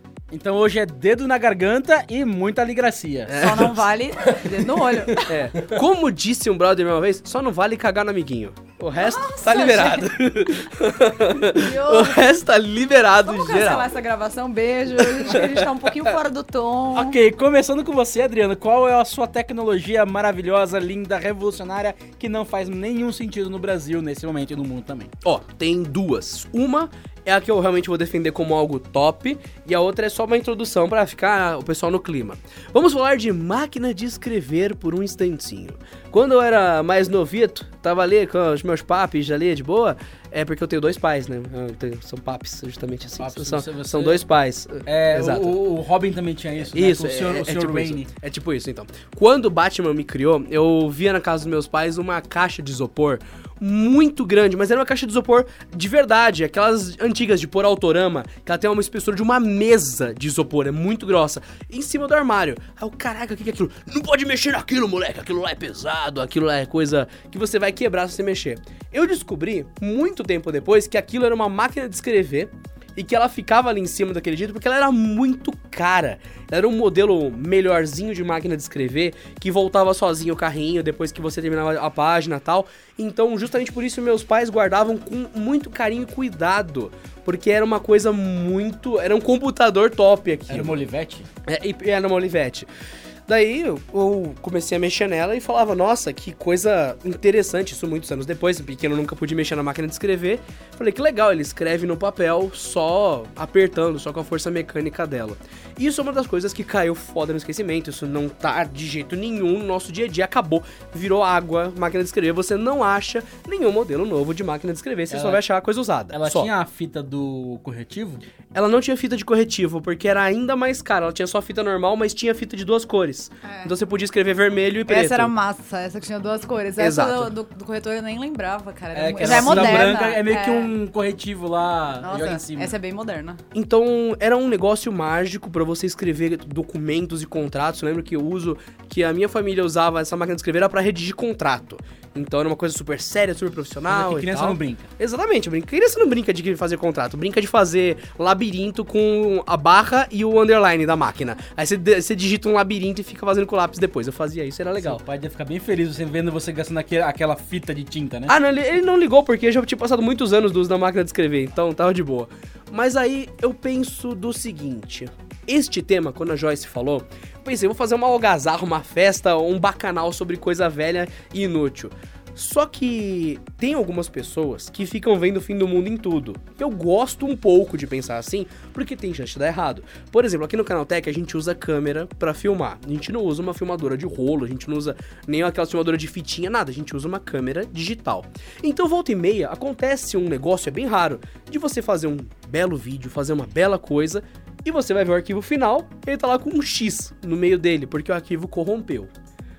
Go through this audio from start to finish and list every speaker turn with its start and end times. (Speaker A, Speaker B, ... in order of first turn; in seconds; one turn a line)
Speaker A: 0.3-3.4
Speaker B: 3.3-3.8
Speaker C: 3.4-5.3
Speaker B: 5.2-13.9
Speaker C: 9.0-10.1
Speaker C: 11.5-12.2
Speaker C: 13.2-17.1
Speaker B: 15.0-15.7
Speaker A: 16.9-25.1
Speaker B: 25.2-45.5
Speaker A: 43.2-44.2
Speaker A: 44.9-48.1
Speaker B: 46.7-90.8
Speaker A: 90.5-91.3
Speaker B: 91.5-92.7
Speaker B: 93.3-116.5
Speaker A: 115.1-115.4
Speaker A: 116.1-118.2
Speaker B: 118.5-125.3
Speaker C: 123.4-123.7
Speaker C: 124.9-130.7
Speaker B: 126.8-127.3
Speaker A: 128.9-132.7
Speaker B: 129.2-129.9
Speaker C: 132.0-133.4
Speaker B: 133.5-155.0
Speaker A: 143.9-144.9
Speaker A: 154.8-158.3
Speaker B: 158.3-199.1